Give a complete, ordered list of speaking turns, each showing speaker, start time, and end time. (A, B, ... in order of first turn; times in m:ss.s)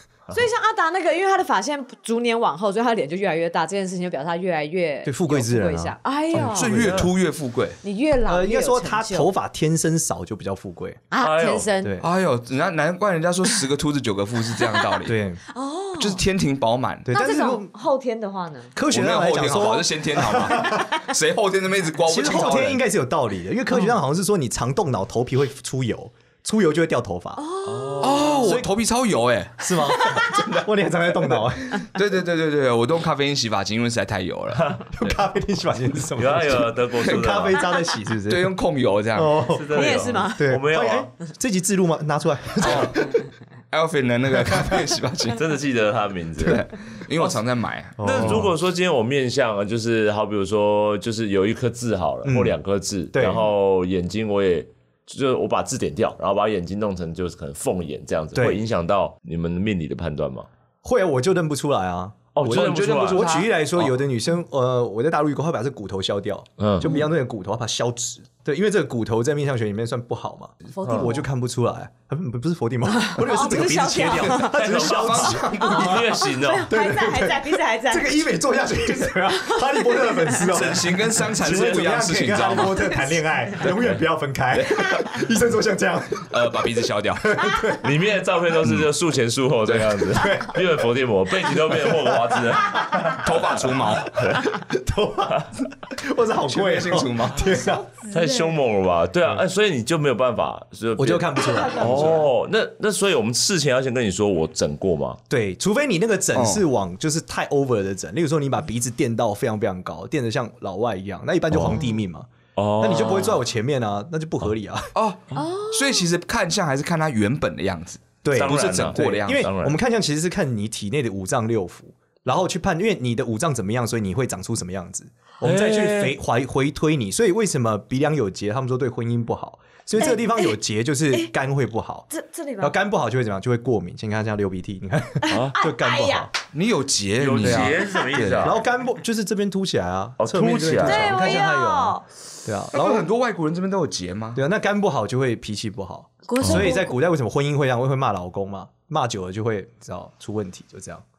0:00.3-0:06.9 A
0:05.0-0:07.1 B
0:06.3-0:07.8 C
0:07.8-0:09.3 A
0:08.3-0:11.0 B
0:11.1-0:12.0 A
0:11.2-0:11.7 D
0:11.8-0:12.1 B
0:12.0-0:15.2 C
0:14.5-0:16.2 A
0:15.1-0:15.4 B
0:16.0-0:17.1 C
0:17.0-0:17.7 B
0:17.1-0:18.7 A
0:18.8-0:21.0 B
0:18.9-0:22.8 C
0:22.1-0:27.4 B
0:27.4-0:28.4 A
0:27.7-0:28.4 D
0:28.0-0:35.2 C
0:28.3-0:28.7 B
0:29.6-0:31.9 B
0:30.0-0:30.4 A
0:34.5-0:34.8 D
0:34.9-0:38.5 B
0:36.2-0:37.7 D
0:37.0-0:37.6 C
0:38.3-0:39.4 C
0:39.1-0:43.2 B
0:39.5-0:41.1 D
0:39.7-0:40.4 A
0:42.6-0:43.2 C
0:43.7-0:45.4 C
0:45.4-0:47.4 D
0:46.4-0:48.4 C
0:48.0-0:48.5 B
0:48.0-1:00.5 D
0:52.2-0:52.6 B
0:53.1-0:53.4 B
0:58.4-0:58.6 B
1:00.8-1:16.1 B
1:02.4-1:03.3 D
1:02.4-1:04.0 C
1:06.6-1:07.0 D
1:10.7-1:11.3 A
1:10.8-1:11.1 D
1:13.0-1:14.6 A
1:14.2-1:16.0 C
1:14.4-1:16.7 D
1:15.6-1:18.2 A
1:16.7-1:26.5 B
1:19.3-1:20.4 A
1:20.4-1:22.9 C
1:21.4-1:21.8 D
1:22.6-1:23.2 A
1:23.6-1:24.0 C
1:24.5-1:25.2 C
1:26.3-1:27.5 C
1:27.2-1:27.8 B
1:27.8-1:34.6 D
1:29.7-1:30.2 C
1:30.2-1:30.6 B
1:32.8-1:33.2 B
1:33.2-1:34.2 C
1:34.6-1:37.8 B
1:36.5-1:37.4 C
1:37.4-1:38.6 A
1:38.1-1:45.2 D
1:41.0-1:42.3 B
1:41.4-1:42.3 A
1:45.3-1:54.9 B
1:46.3-1:46.6 C
1:52.6-1:53.4 D
1:55.0-1:59.5 C
1:55.4-1:56.1 A
1:58.2-2:16.3 B
1:58.3-1:59.8 D
2:05.4-2:06.2 D
2:10.0-2:10.6 A
2:12.1-2:12.8 A
2:15.2-2:16.3 A
2:15.3-2:15.6 D
2:16.5-2:18.6 C
2:17.2-2:18.6 D
2:18.4-2:23.1 B
2:20.2-2:21.4 D
2:20.7-2:21.0 C
2:20.8-2:22.0 A
2:22.7-2:24.4 C
2:24.4-2:31.0 B
2:26.3-2:27.0 A